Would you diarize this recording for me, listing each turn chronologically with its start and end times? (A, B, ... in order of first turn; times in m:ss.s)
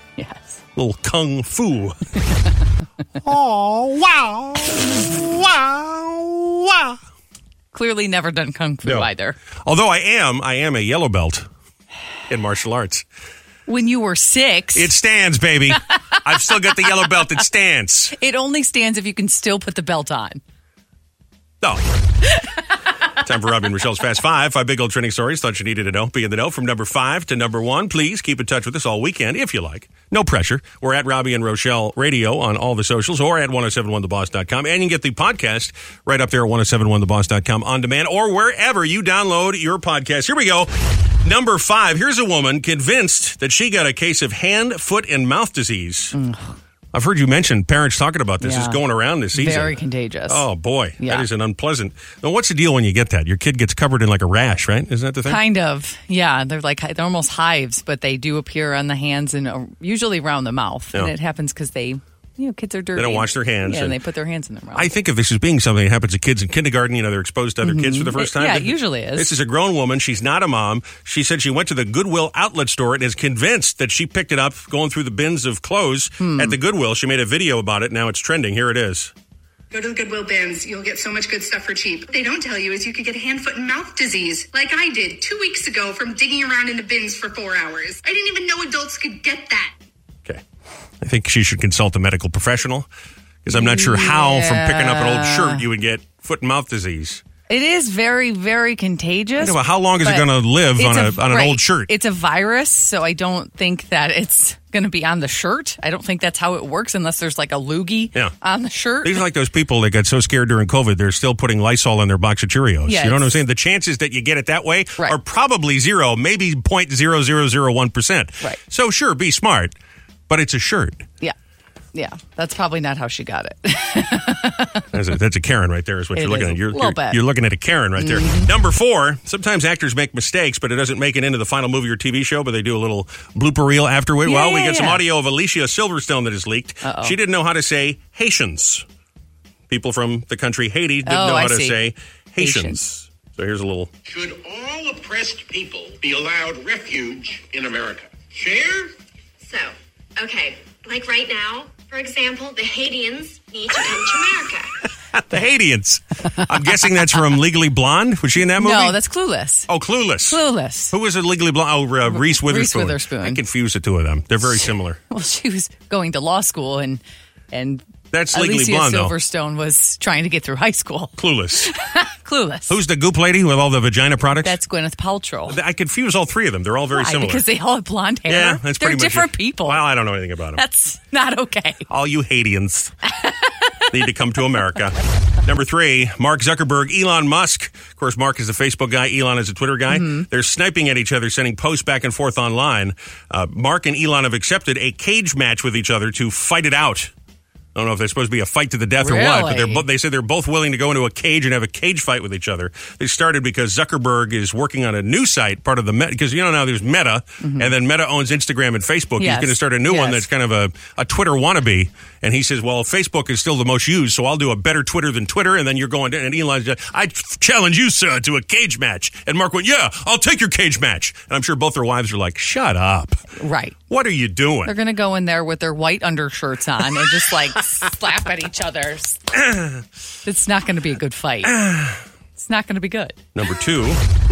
0:00.2-0:00.6 A
0:00.8-0:02.0 B
0:03.2-0:07.0 B
0:07.7-0:09.4 A
0:09.6-0:11.5 B
0:12.3-0:13.0 B
0:13.7-0:14.9 A
0:14.7-0:18.1 B
0:18.2-0:20.4 A
0:21.6-0:21.9 B
0:23.2-0:40.7 B
0:41.2-0:46.2 B
0:46.1-0:46.6 A
0:46.9-0:55.4 B
0:48.4-0:48.8 A
0:49.3-0:50.5 A
0:51.0-0:51.3 A
0:55.2-1:04.9 A
1:03.0-1:04.0 B
1:04.7-1:19.1 B
1:07.6-1:09.3 A
1:16.2-1:16.6 A
1:19.7-1:29.7 C
1:31.0-1:32.9 B
1:33.4-1:37.2 B
1:33.5-1:35.6 A
1:37.5-1:49.2 A
1:39.4-1:41.9 B
1:49.0-1:59.7 B
1:52.9-1:53.3 A
2:00.3-2:01.1 B
2:01.9-2:04.9 A
2:04.9-2:18.8 B
2:06.2-2:07.2 A
2:08.0-2:08.5 A
2:14.2-2:15.0 A
2:16.8-2:17.2 A
2:19.7-2:23.9 B
2:21.1-2:21.8 A
2:22.4-2:22.8 A
2:24.1-2:28.9 D
2:29.4-2:34.7 E
2:35.1-2:39.0 B
2:38.6-2:39.7 A
2:39.7-2:40.4 B
2:40.2-2:41.0 A
2:40.9-2:45.0 B
2:42.1-2:43.4 A
2:44.6-2:47.0 A
2:47.5-2:52.8 A
2:48.1-2:49.1 B
2:51.2-2:51.7 B
2:52.7-2:54.6 B
2:54.4-2:55.6 A
2:55.5-2:57.4 B
2:56.9-2:59.9 A
2:58.3-3:00.6 B
3:00.6-3:01.8 A
3:01.9-3:02.9 B
3:03.1-3:03.7 A
3:03.9-3:17.1 B
3:09.9-3:10.3 A
3:17.8-3:43.3 B
3:19.0-3:19.8 A
3:27.4-3:27.7 A
3:29.2-3:30.3 A
3:43.4-3:43.8 A
3:43.9-3:44.8 B
3:44.6-3:49.2 A
3:49.3-3:49.8 B
3:50.2-3:51.6 A
3:51.4-3:52.0 B
3:52.4-3:53.2 A
3:53.4-3:54.0 B